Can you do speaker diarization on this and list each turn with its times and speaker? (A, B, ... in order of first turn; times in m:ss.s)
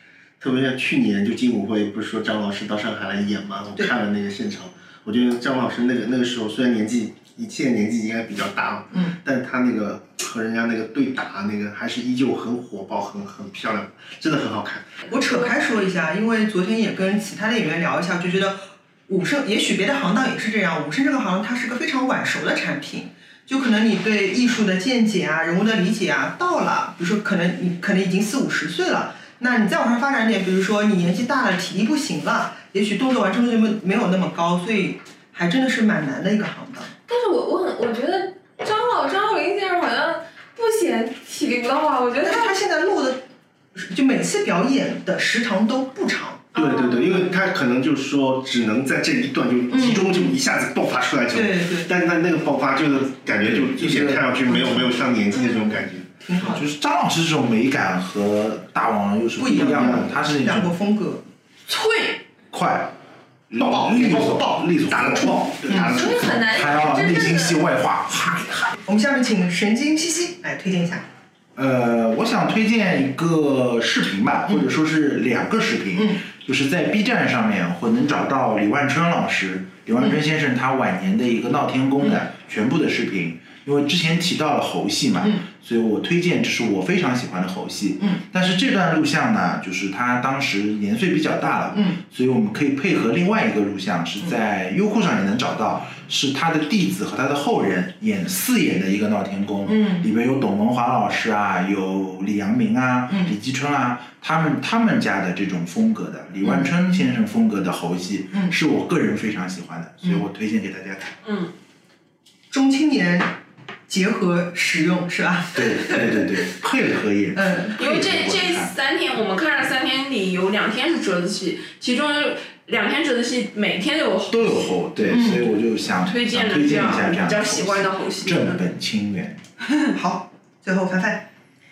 0:00.4-0:15.0 A
0:15.1-0:36.9 B
0:37.1-0:42.5 C
0:42.2-0:43.2 B
0:43.8-0:46.6 B
0:46.5-0:56.1 A
0:46.6-0:47.1 C
0:49.7-0:50.0 B
0:51.3-0:51.9 B
0:53.4-0:54.9 D
0:56.2-0:56.6 B
0:56.4-1:00.7 D
0:59.4-1:01.2 B
0:59.6-1:00.1 A
1:01.7-1:02.2 E
1:02.5-1:03.0 D
1:03.5-1:08.8 D
1:03.5-1:06.4 A
1:05.7-1:06.0 B
1:05.9-1:07.6 C
1:08.8-1:11.0 B
1:11.6-1:51.1 D
1:22.0-1:22.2 B
1:31.7-1:32.0 B
1:39.6-1:40.1 B
1:43.1-1:43.4 B
1:46.4-1:46.7 B
1:51.2-1:51.5 E
1:52.5-1:53.3 B
1:53.9-1:56.4 B
1:55.5-1:58.7 D
1:57.4-1:57.7 B
1:57.8-2:04.7 E
2:04.3-2:09.4 D
2:05.1-2:05.5 B
2:06.1-2:08.6 E
2:09.9-2:11.3 B